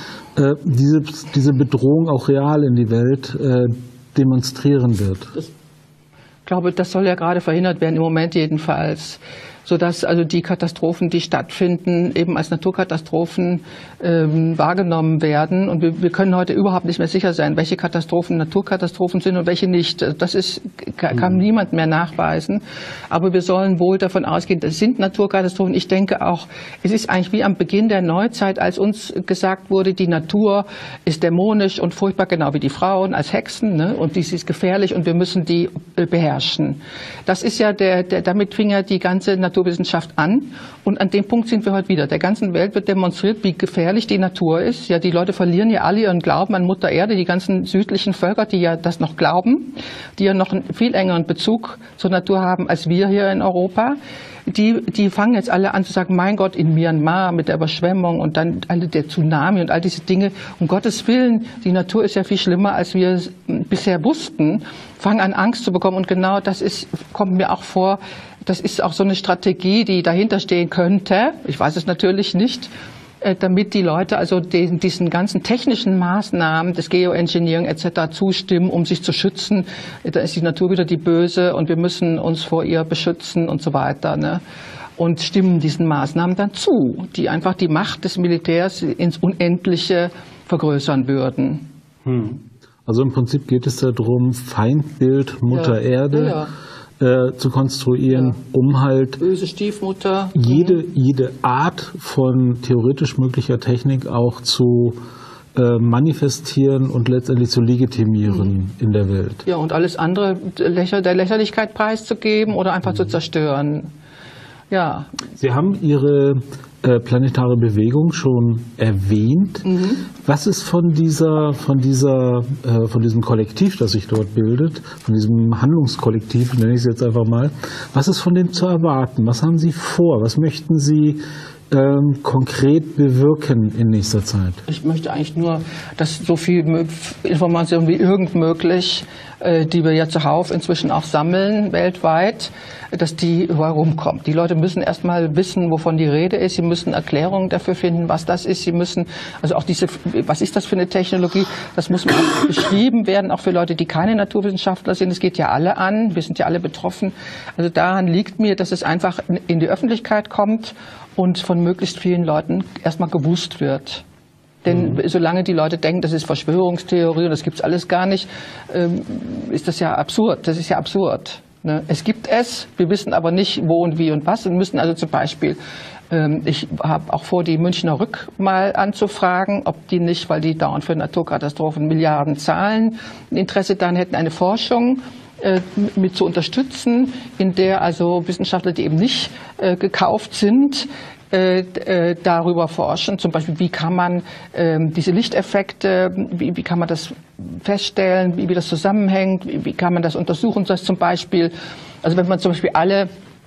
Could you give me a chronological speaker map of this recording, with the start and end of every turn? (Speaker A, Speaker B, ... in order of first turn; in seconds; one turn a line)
Speaker A: 0.3-5.3
Speaker B: 6.5-54.0
Speaker B: 54.5-72.7
Speaker B: 73.2-84.4
Speaker B: 85.0-91.7
Speaker A: 92.0-96.4
Speaker B: 95.5-96.5
Speaker A: 97.0-99.2
Speaker B: 98.1-98.4
Speaker B: 99.2-100.8
Speaker A: 100.3-105.0
Speaker A: 105.5-109.4
Speaker B: 109.5-113.9
Speaker B: 114.7-115.1
Speaker A: 115.4-119.7
Speaker B: 119.7-120.0
Speaker A: 120.2-134.6
Speaker B: 134.7-164.0
Speaker B: 164.6-175.6
Speaker B: 176.1-203.1